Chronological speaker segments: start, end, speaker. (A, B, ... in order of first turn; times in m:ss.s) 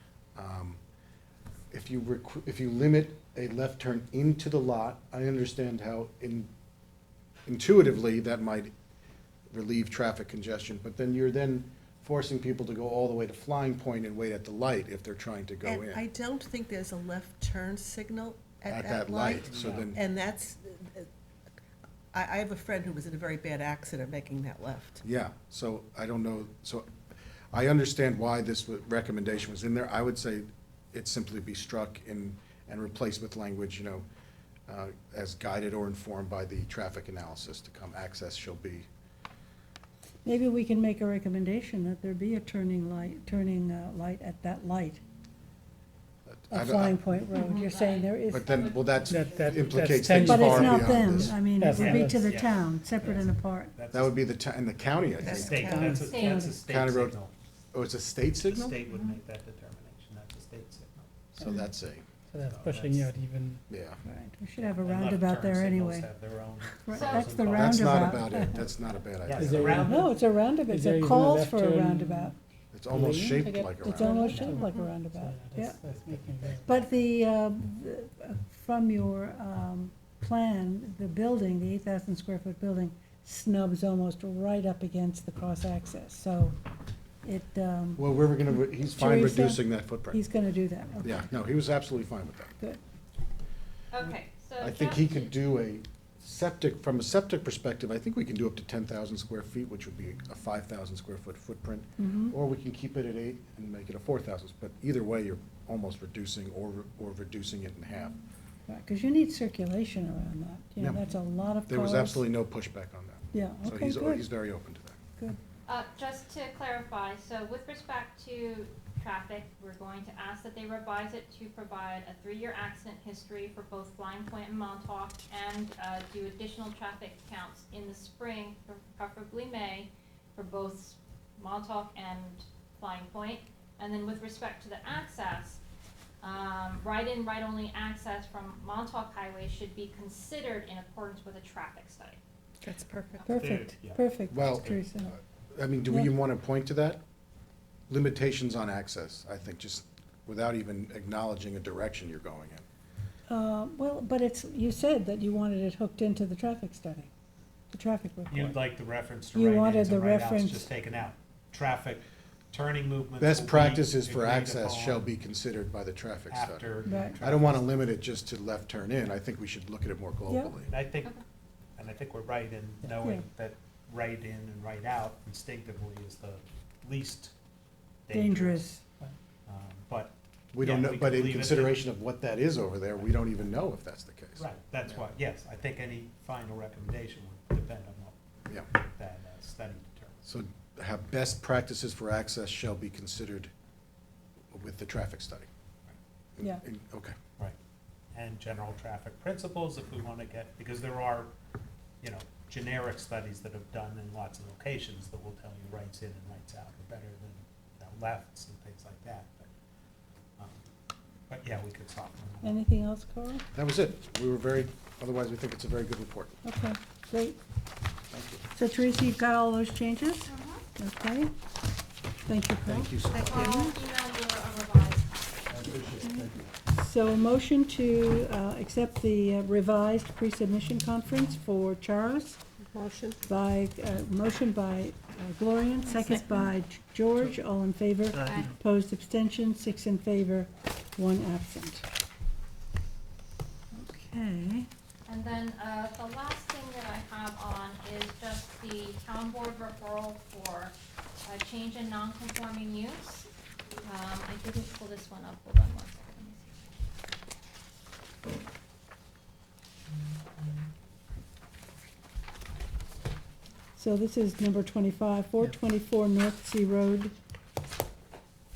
0:00.4-0:00.8 A
0:01.7-0:06.5 A
0:07.5-0:08.7 A
0:09.5-0:16.0 A
0:15.6-0:21.1 B
0:18.7-0:20.0 A
0:19.4-0:19.9 C
0:22.1-0:25.0 B
0:25.0-0:26.9 A
0:27.5-0:34.0 A
0:34.7-0:38.9 A
0:40.2-0:45.0 D
0:46.3-0:47.0 A
0:46.5-0:48.5 D
0:47.3-0:50.0 E
0:48.3-0:51.4 A
0:49.1-0:52.4 F
0:50.2-0:53.7 D
0:51.8-0:54.3 C
0:53.9-0:57.2 A
0:55.2-0:56.0 B
0:55.4-0:57.3 C
0:55.7-0:56.0 F
0:56.0-0:56.6 E
0:57.7-0:58.8 A
0:58.4-1:01.3 C
1:01.4-1:02.0 A
1:02.3-1:03.6 F
1:02.4-1:03.1 C
1:03.7-1:04.0 A
1:04.0-1:06.1 D
1:04.6-1:08.1 C
1:06.8-1:08.6 D
1:06.9-1:07.4 E
1:07.5-1:09.9 A
1:09.2-1:10.2 C
1:09.4-1:12.4 F
1:09.8-1:12.4 D
1:12.7-1:14.1 A
1:12.9-1:16.8 F
1:13.8-1:15.8 D
1:14.4-1:14.9 B
1:15.9-1:17.0 C
1:16.6-1:26.6 D
1:27.2-1:28.1 D
1:28.0-1:30.2 A
1:28.7-1:31.3 D
1:31.0-1:32.5 A
1:33.9-1:35.3 E
1:34.6-1:48.2 A
1:42.0-1:42.4 D
1:48.7-1:52.3 D
1:51.7-1:55.0 A
1:53.3-1:54.3 D
1:55.7-2:15.6 E
2:16.2-2:22.2 E
2:22.6-2:23.2 B
2:23.2-2:24.9 C
2:23.3-2:25.1 D
2:24.3-2:24.8 A
2:25.5-2:27.0 A
2:25.9-2:26.1 D
2:27.9-2:32.6 A
2:33.3-2:37.1 D
2:37.7-2:38.6 D
2:38.3-2:45.0 C
2:39.4-2:40.7 D
2:43.2-2:46.6 A
2:46.3-2:47.8 C
2:46.9-2:47.2 D
2:47.2-2:50.7 A
2:50.6-2:51.1 C
2:51.8-2:57.3 C
2:52.9-2:53.2 D
2:58.1-2:58.7 C
2:58.1-2:58.8 D
2:59.5-3:01.9 C
3:00.5-3:05.1 A
3:04.4-3:10.3 C
3:10.3-3:13.5 A
3:14.5-3:15.5 A
3:16.4-3:17.2 A
3:18.1-3:21.3 C
3:22.0-3:29.5 C
3:30.4-3:30.6 C
3:31.3-3:32.6 C
3:32.4-3:33.4 D
3:33.5-3:36.4 A
3:36.4-3:37.4 D
3:38.1-3:38.4 A
3:38.6-3:41.3 D
3:40.3-3:40.6 E
3:42.3-3:42.9 D
3:42.7-3:43.7 A
3:43.1-3:43.7 B
3:43.1-3:45.2 E
3:45.5-3:46.4 A
3:46.1-3:52.4 D
3:52.7-3:53.2 B
3:53.3-4:01.8 D
3:55.9-3:56.4 E
3:58.1-3:58.5 B
3:58.2-3:58.5 E
4:03.7-4:04.7 D
4:05.1-4:13.3 E
4:13.8-4:16.7 E
4:23.8-4:27.1 D